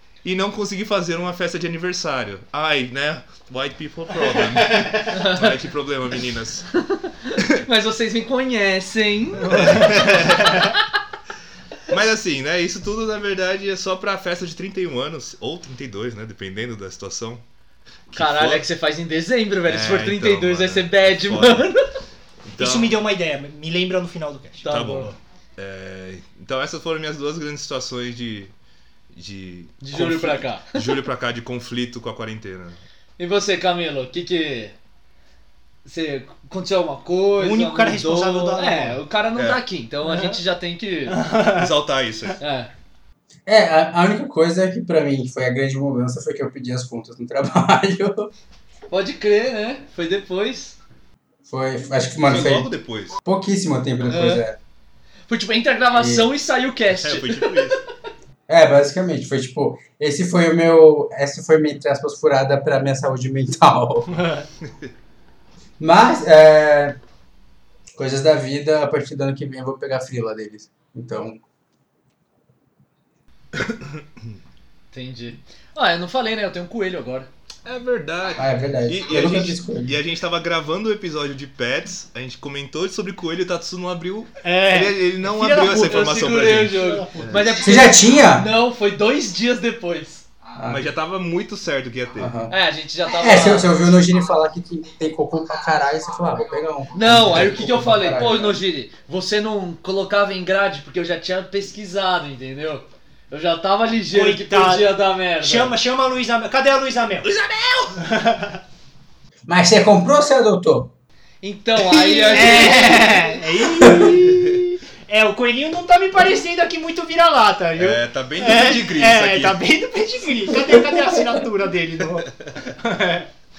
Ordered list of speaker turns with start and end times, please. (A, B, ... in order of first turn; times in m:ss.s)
0:00.2-0:06.7 A
0:04.7-0:05.0 B
0:05.1-0:05.6 C
0:06.8-0:10.1 C
0:09.4-0:10.7 B
0:09.5-0:10.7 A
0:11.9-0:17.4 A
0:18.1-0:18.7 A
0:18.1-0:21.9 C
0:19.7-0:21.7 A
0:22.4-0:23.0 A
0:22.6-0:25.1 B
0:24.6-0:25.1 C
0:24.7-0:28.5 A
0:29.1-0:32.8 A
0:29.8-0:30.9 C
0:33.2-0:34.8 C
0:35.8-0:41.2 C
0:37.4-0:39.0 B
0:39.4-0:39.6 A
0:40.1-0:40.4 B
0:41.1-0:41.7 B
0:41.4-0:42.4 A
0:42.4-0:42.7 C
0:43.5-0:48.3 D
0:48.9-0:50.8 C
0:51.5-0:52.7 D
0:52.2-0:53.2 A
0:53.2-0:54.6 D
0:54.0-0:54.4 C
0:55.3-0:57.7 C
0:56.0-0:56.3 D
0:56.9-0:57.8 A
0:58.5-1:04.2 D
1:04.1-1:04.5 B
1:05.8-1:07.0 D
1:08.0-1:11.4 D
1:13.6-1:14.0 A
1:14.9-1:17.3 C
1:17.6-1:27.6 A
1:18.4-1:20.0 D
1:24.4-1:26.1 B
1:25.8-1:30.3 C
1:26.7-1:27.6 B
1:27.6-1:28.5 D
1:30.6-1:30.8 D
1:30.6-1:32.4 A
1:32.2-1:32.5 D
1:32.5-1:33.9 C
1:33.1-1:38.6 D
1:36.9-1:45.8 C
1:44.1-1:47.3 B
1:47.4-1:47.9 C
1:48.0-1:48.6 B
1:49.5-1:50.9 D
1:51.4-1:53.3 C
1:52.3-2:03.3 B
1:53.8-1:54.1 D
1:57.8-1:59.6 A